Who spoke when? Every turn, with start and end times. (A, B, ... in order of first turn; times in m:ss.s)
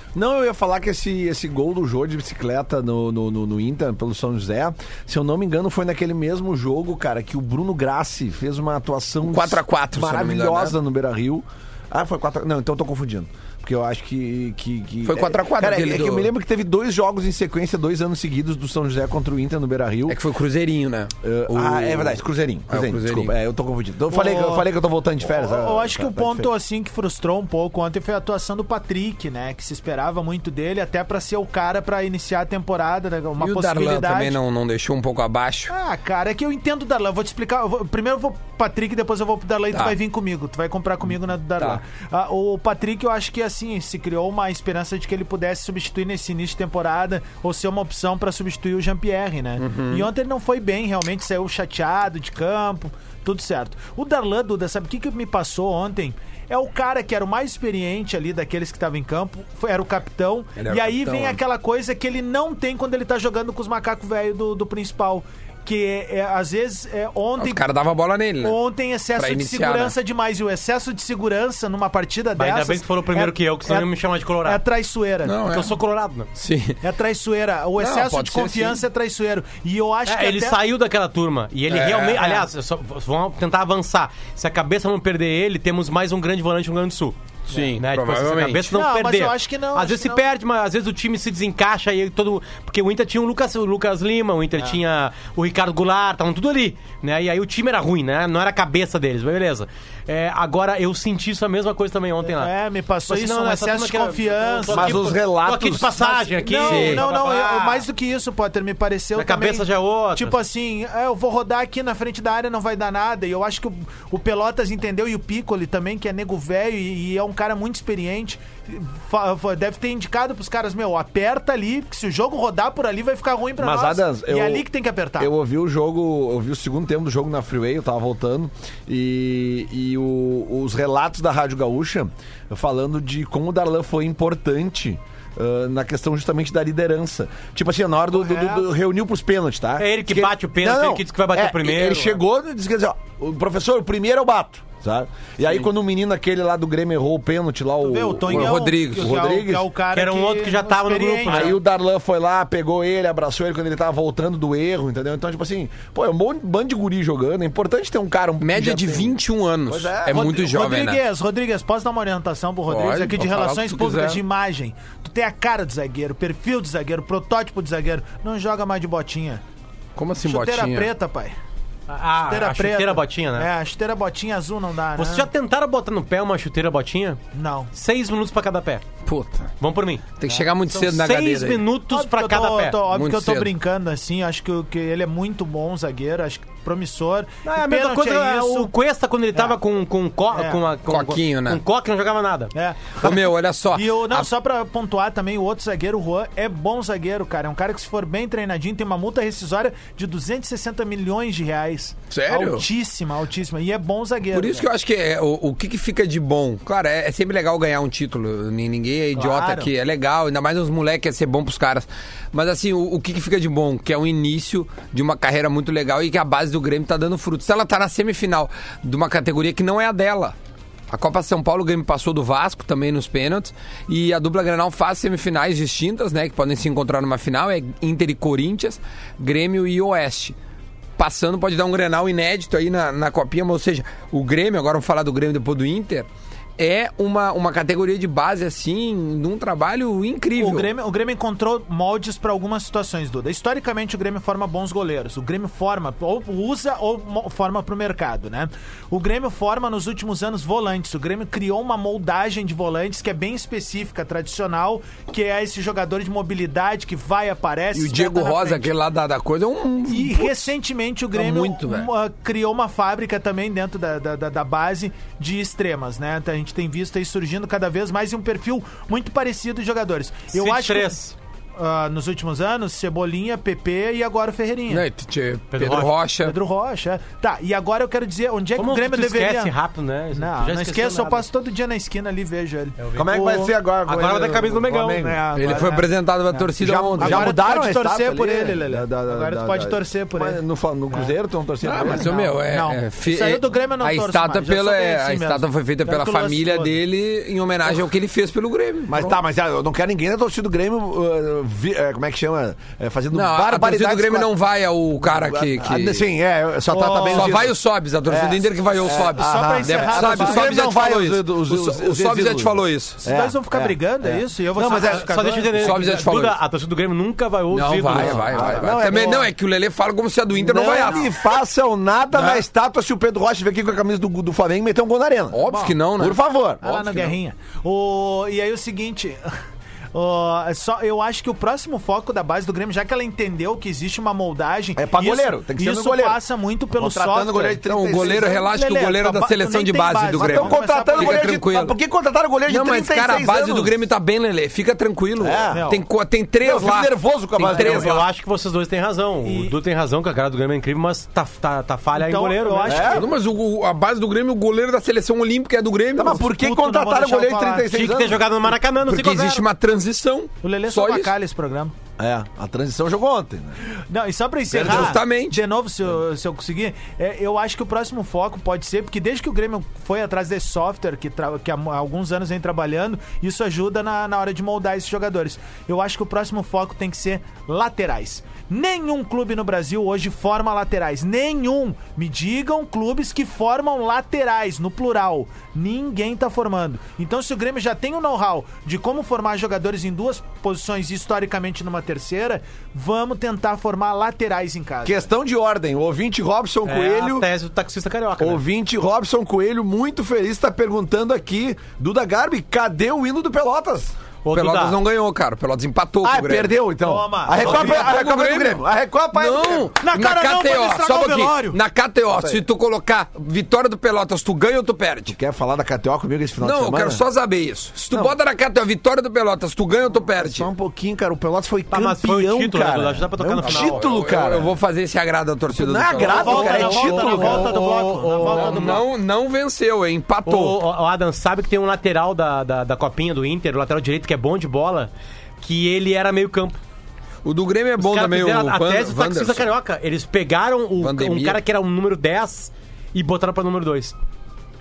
0:00.1-0:20.2 A
0:09.3-0:10.8 B
0:15.0-0:16.3 B
0:20.1-0:22.2 B
0:21.2-0:26.5 A
0:22.7-0:23.3 B
0:24.1-0:24.7 C
0:25.2-0:34.4 C
0:33.4-0:35.7 B
0:35.7-1:07.6 C
0:49.6-0:50.1 B
1:00.6-1:01.4 B
1:07.4-1:08.6 B
1:08.4-1:13.9 C
1:09.2-1:09.9 B
1:12.4-1:14.6 D
1:14.4-1:15.4 C
1:15.2-1:15.7 B
1:15.5-1:16.3 D
1:16.4-1:16.8 B
1:16.8-1:20.6 C
1:17.8-1:18.8 B
1:20.1-1:27.2 D
1:21.7-1:22.2 B
1:22.1-1:22.5 C
1:27.5-1:28.7 B
1:27.8-1:42.5 D
1:28.7-1:30.2 C
1:42.2-1:45.0 C
1:43.1-1:47.8 D
1:44.7-1:46.1 A
1:46.0-2:05.3 C
1:46.6-1:47.0 B
1:49.2-1:50.4 D
2:03.6-2:04.7 A
2:05.2-2:29.7 A
2:18.2-2:18.6 C
2:19.8-2:22.2 D
2:27.8-2:31.5 C
2:28.3-2:29.4 B
2:29.9-2:31.6 D
2:31.3-2:40.5 A
2:38.4-2:41.0 B
2:40.1-2:49.4 C
2:42.7-2:44.2 B
2:50.0-2:50.9 B
2:50.2-2:51.4 C
2:51.9-2:53.5 D
2:52.3-2:55.3 C
2:55.0-2:57.2 D
2:57.3-2:57.7 C
2:57.7-2:58.8 D
2:59.0-2:59.5 B
2:59.6-3:00.1 D
3:00.2-3:01.6 B
3:00.7-3:02.8 D
3:01.9-3:08.7 C
3:02.9-3:03.5 B
3:07.4-3:12.5 D
3:10.3-3:10.6 C
3:10.9-3:11.6 B
3:12.5-3:24.7 C
3:13.0-3:14.3 B
3:22.1-3:22.7 B
3:24.3-3:40.4 B
3:29.2-3:29.7 C
3:40.9-3:50.4 B
3:51.0-4:00.7 B
4:00.4-4:18.7 C
4:17.7-4:20.5 B
4:19.9-4:31.0 C
4:21.1-4:21.9 B
4:30.3-4:31.1 D
4:31.6-4:34.8 C
4:34.7-4:36.4 B
4:35.5-4:35.9 D
4:36.2-4:39.5 C
4:38.6-4:41.2 D
4:40.2-4:43.5 C
4:42.8-4:43.1 D
4:43.0-4:45.2 A
4:43.9-4:45.1 D
4:45.0-4:51.1 C
4:45.4-4:47.4 B
4:46.6-4:52.1 A
4:51.6-4:59.2 B
4:51.8-4:56.8 C
4:58.9-5:04.3 A
5:03.1-5:06.1 B
5:05.0-5:15.1 A
5:06.7-5:07.4 C
5:07.1-5:13.0 B
5:09.2-5:10.9 C
5:13.0-5:15.8 C
5:14.7-5:18.7 D
5:15.5-5:16.4 B
5:17.5-5:21.1 B
5:17.9-5:19.3 A
5:20.4-5:26.6 A
5:20.6-5:21.1 C
5:22.1-5:22.4 B
5:25.3-5:27.2 B
5:25.5-5:25.8 C
5:26.6-5:29.2 C
5:29.9-5:41.3 C
5:34.8-5:36.2 A
5:36.8-5:38.4 A
5:37.6-5:41.8 B
5:40.2-5:43.8 A
5:42.5-5:48.0 B
5:45.2-5:45.7 A
5:45.5-5:45.8 C
5:46.4-5:48.1 A
5:47.4-5:52.9 D
5:49.2-5:49.6 C
5:51.9-5:53.1 C
5:52.6-5:53.1 A
5:52.9-5:56.2 B
5:56.0-5:58.3 A
5:56.2-5:57.7 C
5:57.7-5:59.4 D
5:58.8-6:01.1 B
6:00.4-6:01.7 C
6:02.0-6:03.6 A
6:03.9-6:35.1 C
6:04.5-6:05.0 A
6:04.5-6:05.4 B
6:34.8-6:37.3 A
6:36.7-6:38.4 D
6:38.2-6:43.9 A
6:44.2-6:44.8 D
6:44.3-6:46.6 B
6:46.0-6:49.7 A
6:46.8-6:48.0 C
6:47.4-6:55.2 B
6:49.8-6:51.6 C
6:52.1-6:52.4 A
6:55.1-6:57.0 A
6:56.4-7:00.5 B
6:57.9-6:58.2 A
7:00.0-7:04.5 A
7:01.7-7:03.9 D
7:03.4-7:06.8 B
7:05.5-7:07.6 A
7:06.0-7:08.8 C
7:06.1-7:08.8 D
7:08.2-7:10.6 B
7:10.2-7:16.6 D
7:17.2-7:19.5 B
7:17.8-7:24.0 D
7:20.8-7:21.4 B